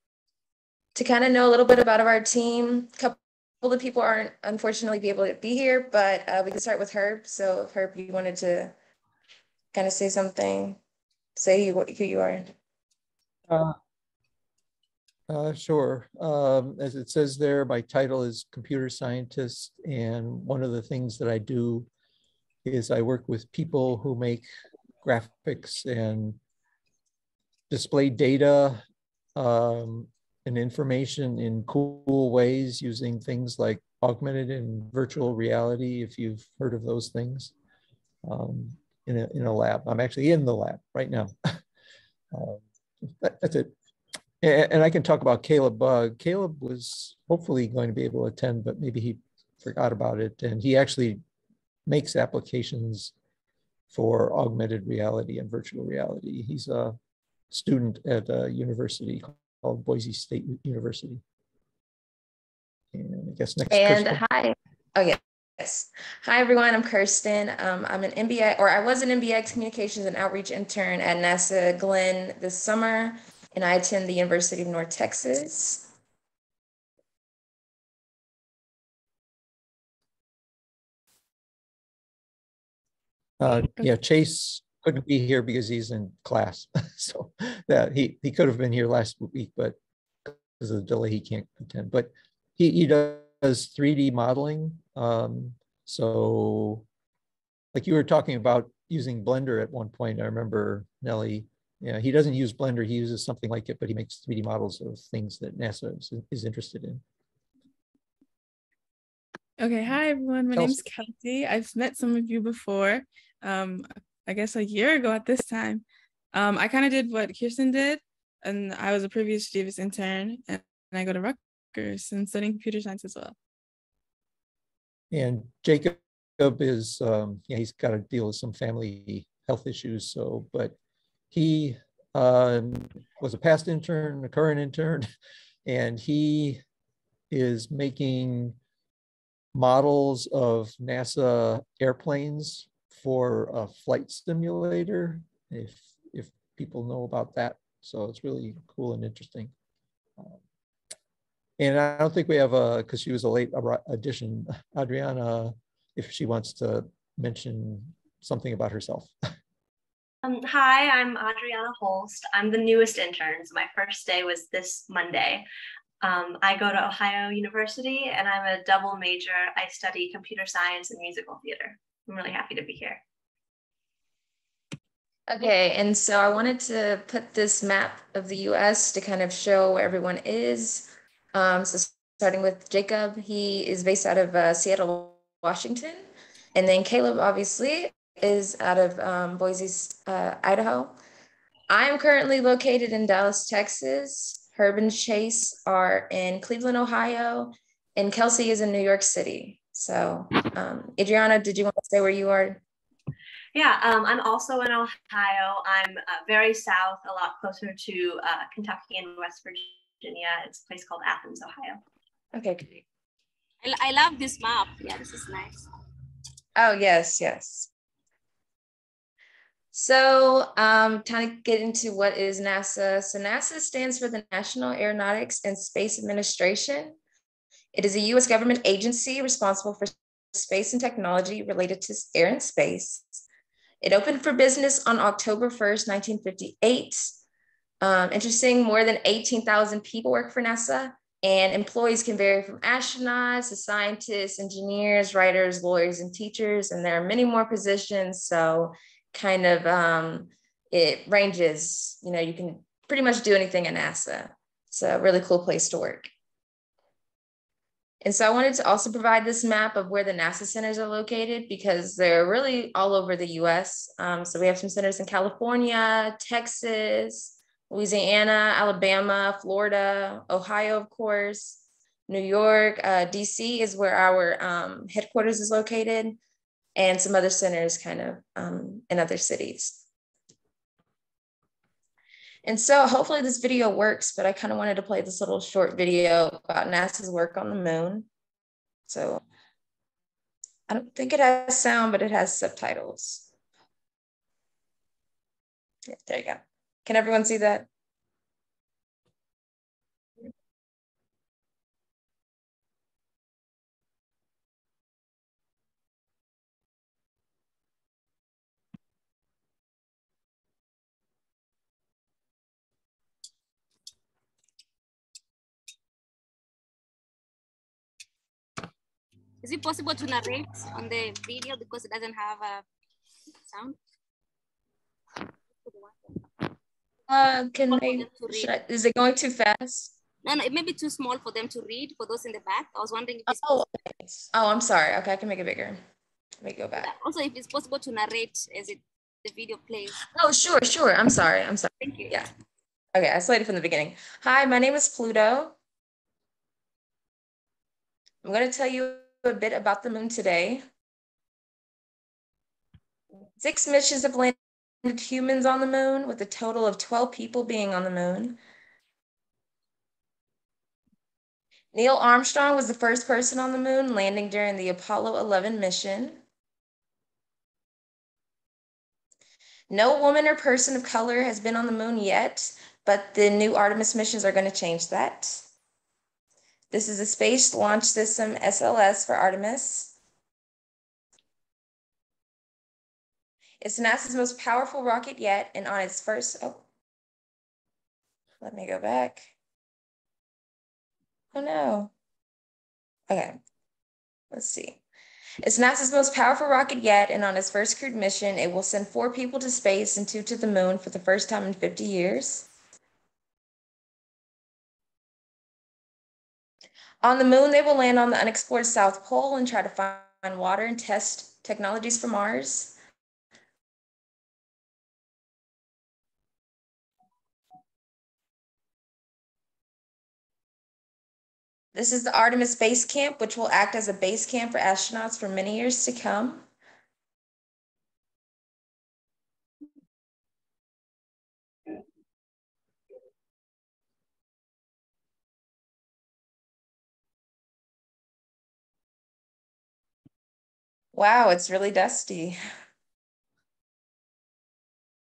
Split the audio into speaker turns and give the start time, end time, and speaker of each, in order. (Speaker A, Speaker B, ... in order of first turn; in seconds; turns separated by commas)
Speaker A: 0.9-8.7, Speaker A: 9.7-10.8, Speaker A: 11.4-12.5, Speaker B: 13.5-13.8, Speaker B: 15.3-21.9, Speaker B: 22.6-24.5, Speaker B: 25.0-26.4, Speaker B: 27.7-28.8, Speaker B: 29.4-37.5, Speaker B: 38.2-41.6, Speaker B: 42.3-43.7, Speaker B: 44.4-51.2, Speaker B: 51.9-53.1, Speaker B: 53.9-57.0, Speaker B: 57.5-61.2, Speaker B: 62.9-64.2, Speaker A: 63.7-75.9, Speaker B: 83.4-96.9, Speaker B: 97.7-107.0, Speaker C: 109.6-123.3, Speaker B: 110.5-110.8, Speaker B: 125.1-130.8, Speaker B: 131.3-135.1, Speaker B: 135.7-136.6, Speaker B: 137.3-138.6, Speaker B: 139.5-149.5, Speaker B: 151.6-159.1, Speaker D: 160.2-165.4, Speaker D: 166.0-173.0, Speaker A: 175.3-190.9, Speaker A: 191.7-202.6, Speaker D: 203.6-211.8, Speaker A: 212.3-212.8, Speaker E: 213.6-215.7, Speaker A: 216.6-217.7, Speaker A: 219.7-227.0, Speaker A: 227.7-233.2, Speaker A: 233.8-237.1, Speaker A: 237.8-256.1, Speaker A: 258.0-276.2, Speaker A: 276.8-279.8, Speaker A: 282.4-288.1, Speaker A: 288.9-289.2, Speaker A: 290.7-293.3, Speaker A: 295.9-297.7, Speaker E: 319.4-322.6, Speaker E: 323.5-323.8, Speaker E: 325.6-325.9, Speaker A: 327.1-329.9, Speaker E: 327.7-328.5, Speaker E: 330.2-333.5, Speaker A: 333.3-335.8, Speaker A: 336.4-336.9, Speaker E: 336.8-340.0, Speaker A: 340.1-342.3, Speaker E: 341.8-342.1, Speaker A: 342.9-345.6, Speaker A: 348.2-350.6, Speaker A: 353.4-358.4, Speaker A: 361.7-366.2, Speaker A: 369.7-375.5, Speaker A: 376.7-379.9, Speaker A: 383.6-386.6, Speaker A: 388.4-389.3, Speaker A: 391.3-391.9, Speaker A: 393.1-393.4, Speaker A: 394.3-394.8, Speaker A: 395.4-402.5, Speaker A: 407.0-412.8, Speaker A: 421.8-426.4, Speaker A: 440.9-442.4